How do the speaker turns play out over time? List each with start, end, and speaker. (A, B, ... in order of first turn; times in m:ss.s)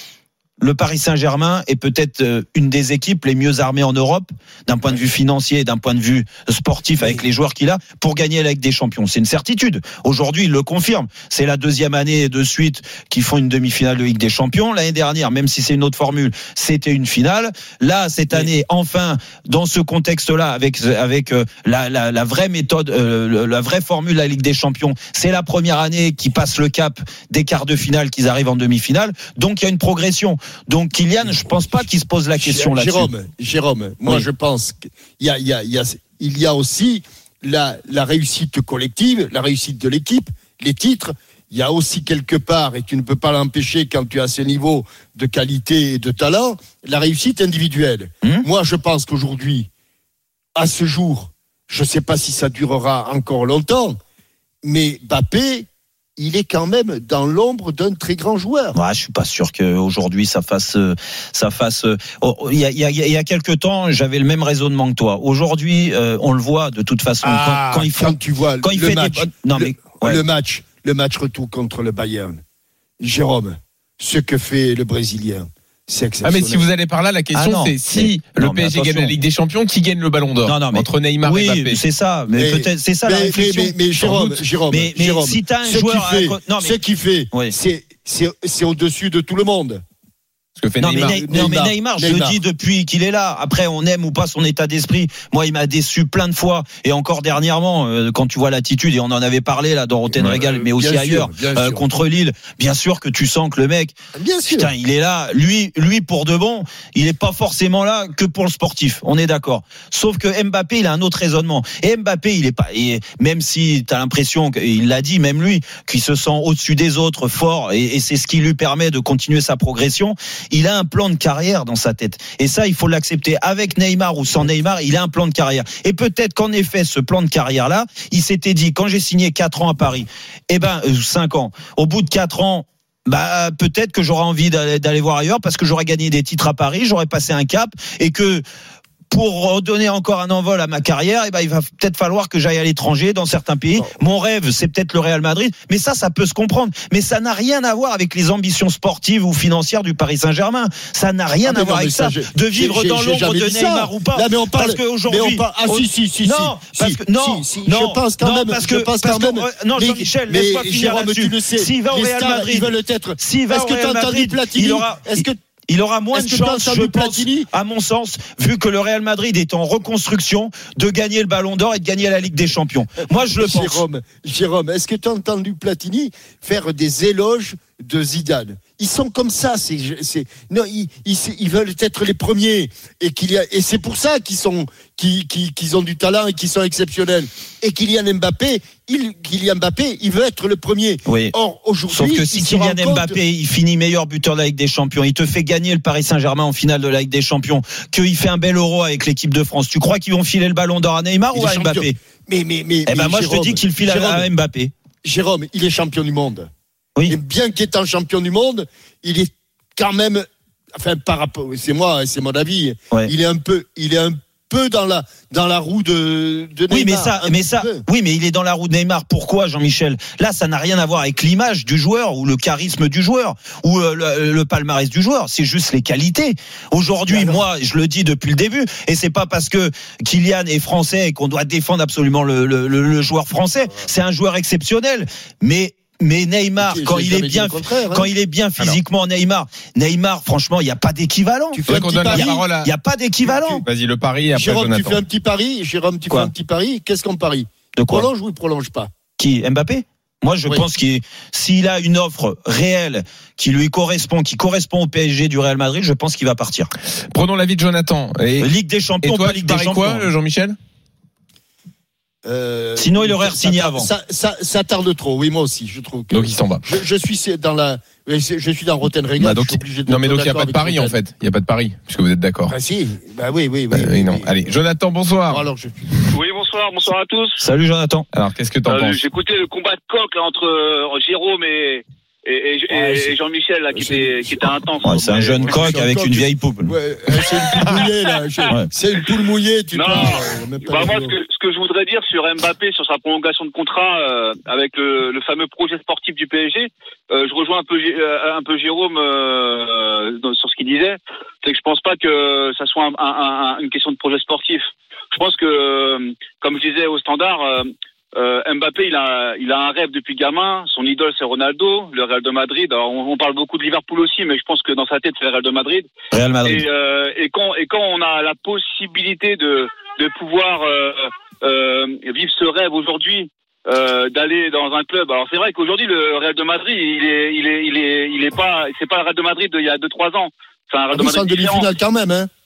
0:00.6-0:33.1 A
0:07.0-0:07.3 B
0:31.2-0:31.5 B
0:32.4-0:49.7 B
0:50.6-0:54.0 B
0:54.6-0:58.8 B
0:58.8-1:10.2 A
1:07.2-1:12.4 B
1:13.0-1:16.6 B
1:16.2-1:21.8 C
1:17.3-1:19.2 A
1:20.4-1:26.8 A
1:22.3-1:29.8 B
1:30.6-1:31.2 C
1:30.8-1:44.0 A
1:30.9-1:32.4 B
1:40.3-1:42.0 B
1:44.1-1:44.7 B
1:44.5-2:18.4 A
2:19.1-2:53.8 A
2:31.4-2:45.4 B
2:46.1-2:47.5 B
2:53.3-3:13.2 B
3:11.1-3:11.3 A
3:11.9-3:22.0 A
3:21.3-3:24.3 B
3:22.9-3:24.7 A
3:25.0-3:26.5 B
3:27.1-3:37.8 B
3:36.7-4:03.6 A
3:47.1-3:47.4 B
3:56.6-3:58.1 B
4:01.5-4:02.3 B
4:01.6-4:02.7 C
4:03.2-4:03.6 B
4:03.6-4:05.0 C
4:04.3-4:08.9 B
4:07.8-4:08.1 A
4:09.2-4:16.7 A
4:17.1-4:18.5 C
4:18.4-4:20.1 A
4:19.0-4:20.6 C
4:22.2-4:31.0 B
4:22.8-4:23.9 A
4:26.1-4:26.6 C
4:29.2-4:32.6 C
4:32.5-4:34.6 B
4:33.7-4:35.5 C
4:35.3-4:36.1 B
4:36.1-4:37.4 D
4:37.4-4:38.1 A
4:38.1-4:39.0 C
4:38.6-4:45.8 D
4:42.7-4:43.1 B
4:43.7-4:51.2 B
4:44.8-4:46.7 A
4:47.3-4:47.8 D
4:49.7-5:15.9 D
5:16.1-5:16.6 A
5:16.4-5:31.7 D
5:30.9-5:32.3 B